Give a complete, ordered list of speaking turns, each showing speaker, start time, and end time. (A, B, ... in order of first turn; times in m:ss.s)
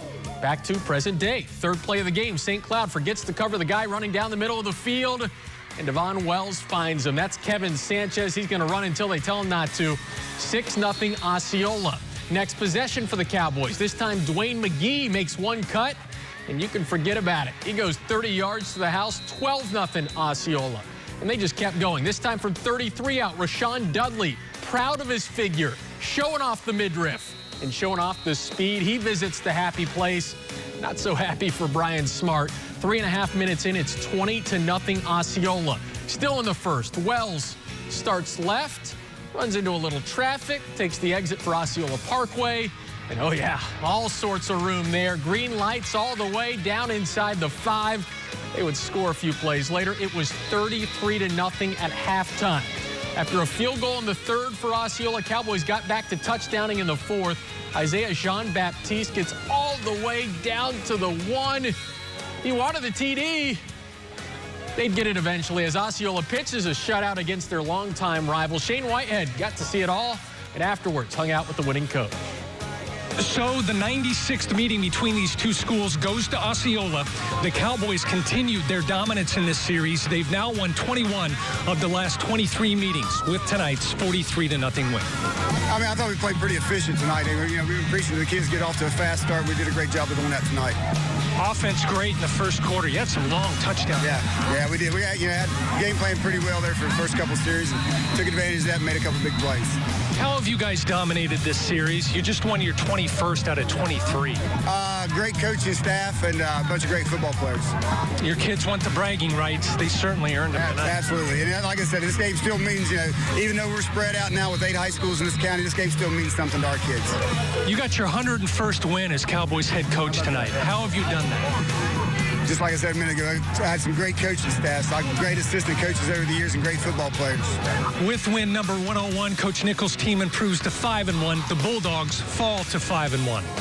0:00.4-1:01.8 A
1:02.4-1:03.6 A
1:04.8-1:12.2 A
1:13.2-1:25.1 B
1:25.7-1:30.8 C
1:31.4-1:34.2 B
1:34.0-1:39.8 C
1:40.2-1:44.4 B
1:44.7-1:47.7 C
1:48.2-1:51.0 B
1:50.5-1:57.2 C
1:57.7-2:01.4 B
2:02.4-2:07.6 C
2:08.0-2:13.5 B